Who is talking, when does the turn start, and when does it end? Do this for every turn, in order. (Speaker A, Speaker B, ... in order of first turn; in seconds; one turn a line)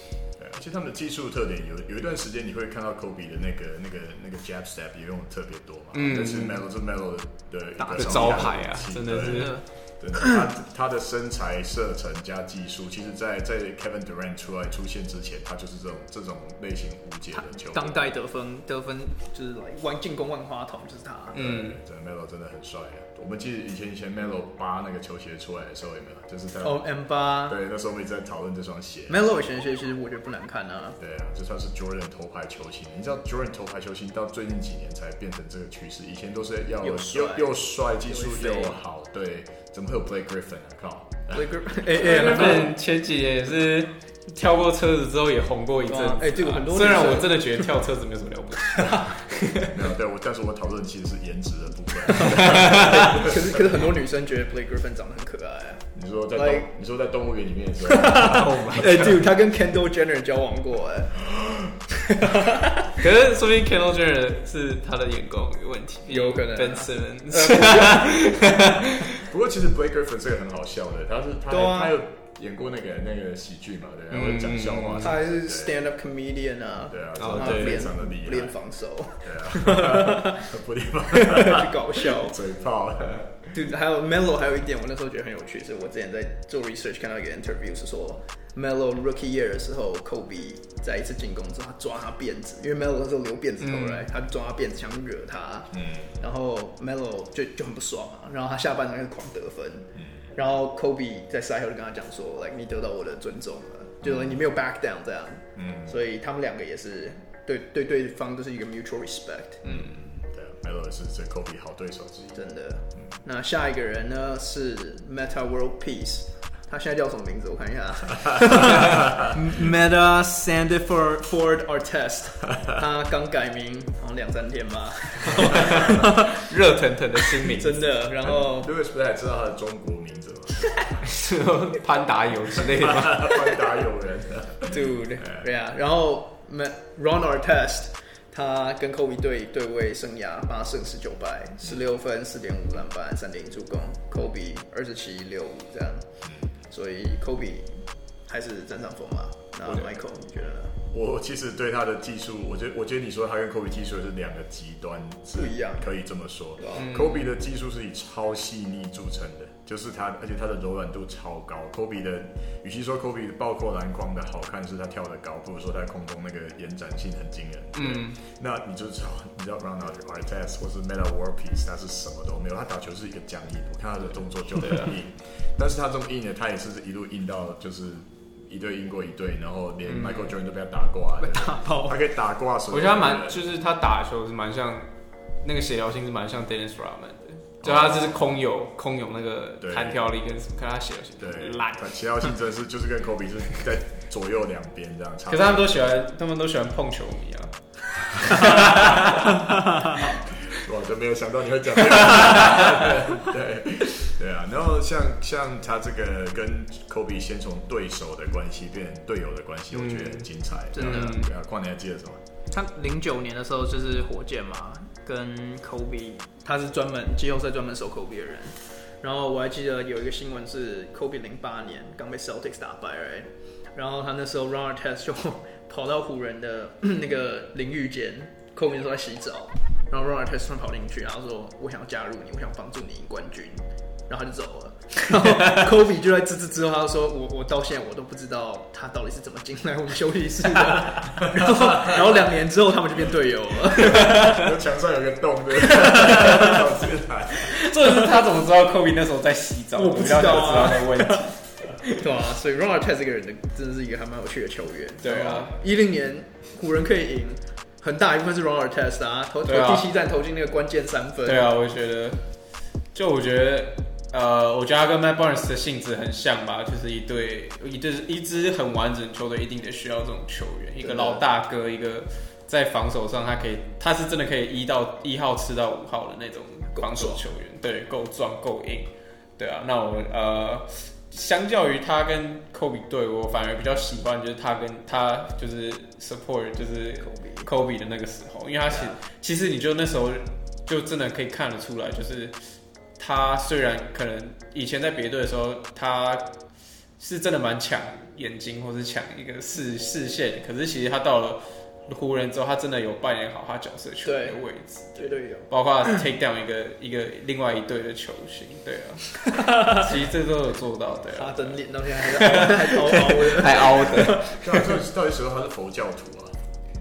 Speaker A: 0.4-18.1
Speaker B: 5.9-6.6
Speaker C: 7.8-8.5
Speaker B: 8.0-9.6
Speaker C: 9.2-9.6
Speaker C: 17.3-21.4
Speaker A: 21.3-26.9
Speaker B: 21.3-21.8
Speaker C: 26.6-27.6
Speaker A: 27.5-29.3
Speaker C: 29.1-31.0
Speaker A: 31.0-41.8
Speaker C: 36.8-37.5
Speaker C: 38.1-38.8
Speaker C: 41.3-42.8
Speaker B: 41.9-49.7
Speaker C: 45.8-47.7
Speaker A: 49.6-53.9
Speaker C: 52.1-56.7
Speaker B: 52.3-53.2
Speaker A: 55.9-59.1
Speaker C: 57.8-61.2
Speaker B: 58.3-59.2
Speaker A: 61.2-61.7
Speaker C: 62.0-62.9
Speaker B: 62.9-69.3
Speaker C: 66.1-68.1
Speaker A: 69.2-75.8
Speaker C: 71.5-71.9
Speaker B: 74.1-75.2
Speaker C: 75.0-80.5
Speaker A: 76.9-78.6
Speaker B: 77.2-77.9
Speaker A: 79.2-83.7
Speaker C: 81.1-82.4
Speaker C: 83.5-109.9
Speaker B: 93.6-94.1
Speaker A: 95.7-96.1
Speaker A: 99.9-100.3
Speaker A: 104.0-104.4
Speaker A: 105.5-106.0
Speaker A: 109.6-112.4
Speaker C: 112.3-126.5
Speaker A: 119.0-119.2
Speaker B: 125.5-128.0
Speaker C: 127.2-128.7
Speaker A: 128.2-131.1
Speaker B: 131.0-133.5
Speaker A: 132.5-135.4
Speaker C: 134.7-146.1
Speaker A: 146.2-146.5
Speaker C: 146.7-150.8
Speaker A: 150.9-183.5
Speaker C: 155.3-155.9
Speaker C: 156.6-156.8
Speaker B: 156.8-157.2
Speaker B: 167.7-168.2
Speaker B: 174.6-174.9
Speaker B: 179.9-180.3
Speaker C: 181.2-182.0
Speaker B: 182.7-184.9
Speaker B: 185.4-191.9
Speaker A: 187.6-188.2
Speaker A: 189.6-190.1
Speaker A: 191.2-195.9
Speaker B: 195.3-200.0
Speaker A: 198.4-199.2
Speaker C: 199.2-200.1
Speaker A: 199.9-212.2
Speaker B: 202.2-202.6
Speaker B: 209.7-211.3
Speaker C: 210.7-211.2
Speaker C: 212.5-244.5
Speaker A: 241.2-242.0
Speaker A: 243.8-247.6
Speaker C: 245.6-246.6
Speaker B: 247.5-252.0
Speaker C: 249.8-261.5
Speaker B: 255.0-255.6
Speaker B: 259.4-259.9
Speaker B: 261.2-262.2
Speaker B: 262.9-292.4
Speaker C: 270.8-271.2
Speaker C: 276.7-277.2
Speaker C: 287.0-287.5
Speaker C: 288.7-289.0
Speaker B: 293.0-296.3
Speaker B: 297.0-314.7
Speaker C: 304.0-304.4
Speaker C: 304.9-305.5
Speaker C: 309.2-310.0
Speaker C: 311.1-314.2
Speaker A: 313.6-316.4